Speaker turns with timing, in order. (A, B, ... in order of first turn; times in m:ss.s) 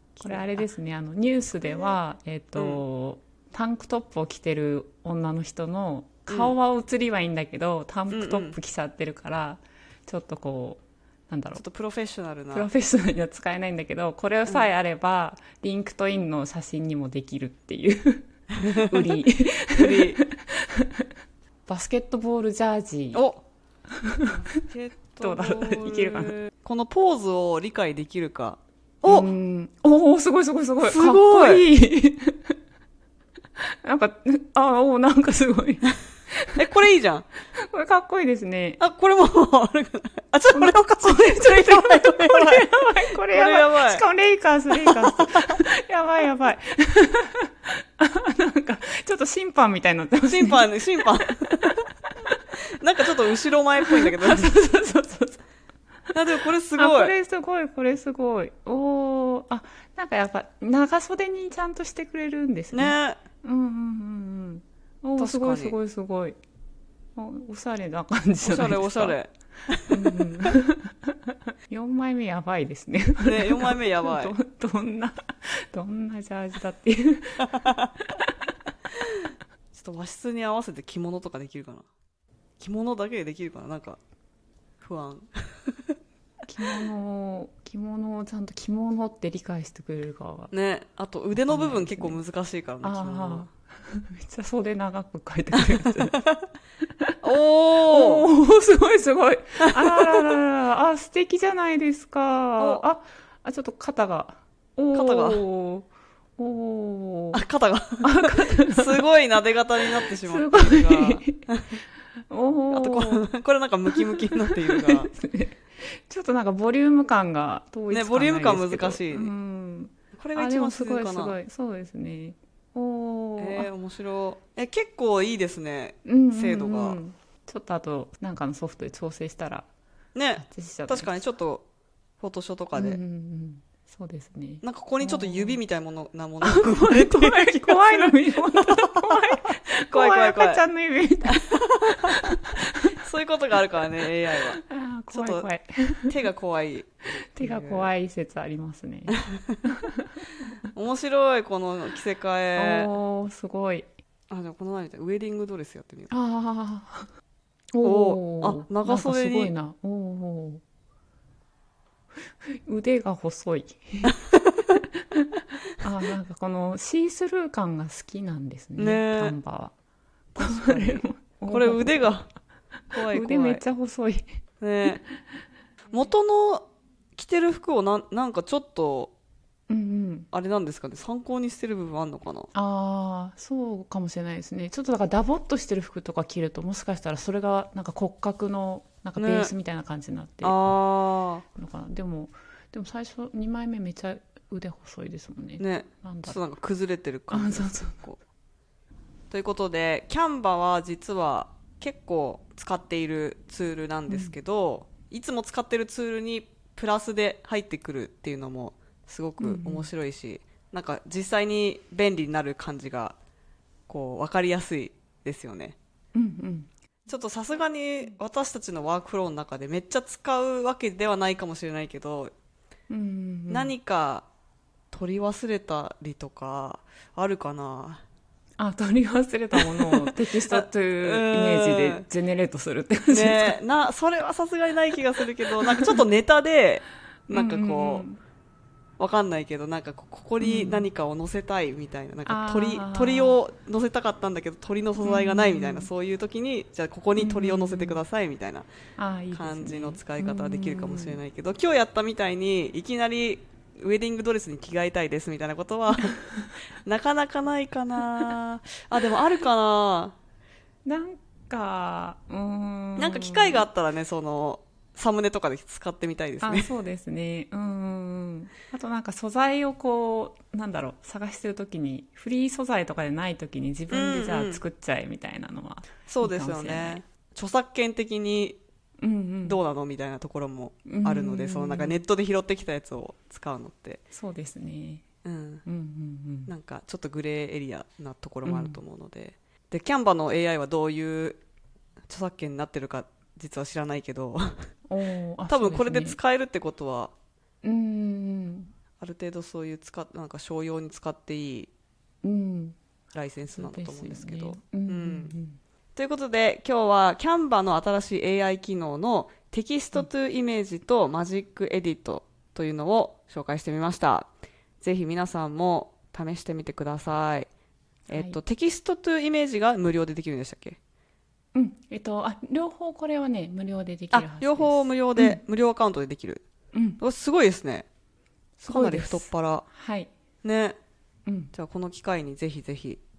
0:00.1-0:00.6 A
0:00.2-0:11.6 B
0:01.6-0:01.9 A
0:02.6-0:02.8 A
0:06.3-0:06.5 A
0:08.1-0:08.6 A
0:11.5-0:12.7 A
0:12.5-0:21.0 B
0:19.8-0:20.2 A
0:21.7-0:23.2 B
0:23.1-0:23.4 A
0:24.0-0:24.5 B
0:24.3-0:29.3 A
0:25.2-0:26.4 B
0:29.0-0:32.6 B
0:30.8-0:31.6 A
0:33.6-0:36.6 B
0:36.6-0:37.3 A
0:37.5-0:38.8 B
0:38.8-0:42.7 A
0:40.5-0:50.7 B
0:43.3-0:44.0 A
0:44.7-0:45.6 A
0:50.2-0:51.8 A
0:52.8-0:54.5 A
0:53.8-0:55.4 B
0:56.1-0:57.1 A
0:56.8-1:06.4 B
1:02.7-1:03.2 A
1:05.2-1:05.8 A
1:07.2-1:09.2 B
1:08.4-1:09.8 A
1:09.8-1:11.2 B
1:11.7-1:17.5 B
1:13.2-1:14.3 A
1:17.4-1:17.9 A
1:19.7-1:21.8 A
1:22.6-1:24.0 A
1:24.8-1:25.9 A
1:26.5-1:30.5 B
1:30.5-1:33.5 A
1:31.3-1:32.2 B
1:32.8-1:36.2 B
1:35.8-1:36.3 A
1:37.2-1:38.3 A
1:37.9-1:47.4 B
1:44.9-1:45.4 A
1:47.3-1:51.7 A
1:48.0-1:49.0 B
1:50.0-1:51.4 B
1:52.3-1:53.3 B
1:52.7-1:55.1 A
1:53.9-2:03.7 B
1:57.9-1:59.3 A
2:00.1-2:01.4 A
2:03.4-2:07.0 A
2:06.0-2:09.7 B
2:10.1-2:11.6 A
2:10.4-2:11.1 B
2:12.2-2:13.0 A
2:12.7-2:15.6 B
2:14.6-2:18.9 A
2:16.4-2:23.0 B
2:19.9-2:20.6 A
2:21.4-2:22.1 A
2:22.9-2:25.5 A
2:24.6-2:26.1 B
2:26.1-2:27.9 A
2:27.1-2:30.1 B
2:30.7-2:32.9 A
2:32.5-2:33.9 B
2:34.3-2:36.1 A
2:36.1-2:37.1 B
2:37.7-2:40.6 B
2:37.8-2:39.5 A
2:42.6-2:44.2 B
2:45.8-2:49.7 B
2:48.8-2:49.3 A
2:50.3-2:52.3 A
2:50.4-2:52.2 B
2:52.9-2:53.6 A
2:52.9-2:54.2 B
2:54.6-2:55.0 A
2:54.8-2:55.4 B
2:55.9-2:59.1 A
2:59.7-3:00.3 B
3:00.3-3:02.5 A
3:02.5-3:10.6 B
3:09.2-3:09.5 A
3:10.4-3:11.4 A
3:11.6-3:16.4 B
3:15.6-3:18.2 A
3:17.3-3:18.0 B
3:19.3-3:33.1 A
3:24.1-3:24.3 B
3:29.4-3:29.9 B
3:33.9-3:35.8 A
3:36.1-3:36.7 B
3:37.1-3:42.3 A
3:42.9-3:43.7 B
3:43.5-3:44.3 A
3:44.9-3:48.0 A
3:48.6-3:53.6 B
3:49.5-3:52.0 A
3:53.1-3:58.0 A
3:55.6-3:56.0 B
3:57.3-3:58.2 B
3:59.0-4:08.7 A
4:00.4-4:00.9 B
4:02.2-4:03.4 B
4:05.0-4:05.9 B
4:07.2-4:08.0 B
4:09.0-4:11.2 B
4:09.3-4:16.2 A
4:16.0-4:16.5 B
4:16.8-4:20.1 A
4:20.8-4:23.6 B
4:23.0-4:26.7 A
4:26.4-4:37.0 B
4:33.9-4:34.6 A
4:36.1-4:38.6 A
4:39.0-4:39.6 B
4:39.4-4:44.0 A
4:40.9-4:42.0 B
4:44.1-4:45.0 B
4:45.2-4:45.6 A
4:45.6-4:46.5 B
4:46.5-4:51.4 A
4:48.4-4:48.8 B
4:52.1-4:54.7 A
4:54.9-4:56.2 B
4:55.5-4:57.1 A
4:57.6-4:58.7 B
4:59.0-5:01.7 A
5:02.2-5:02.8 B
5:03.1-5:05.3 A
5:03.5-5:05.6 B
5:05.9-5:14.3 A
5:14.8-5:17.5 A
5:18.1-5:20.8 A
5:18.1-5:18.4 B
5:21.5-5:25.4 B
5:24.1-5:26.4 A
5:26.7-5:27.0 B
5:27.0-5:27.8 A
5:28.6-5:30.1 B
5:28.7-5:29.6 A
5:30.4-5:30.8 A
5:31.2-5:31.5 B
5:31.5-5:33.0 A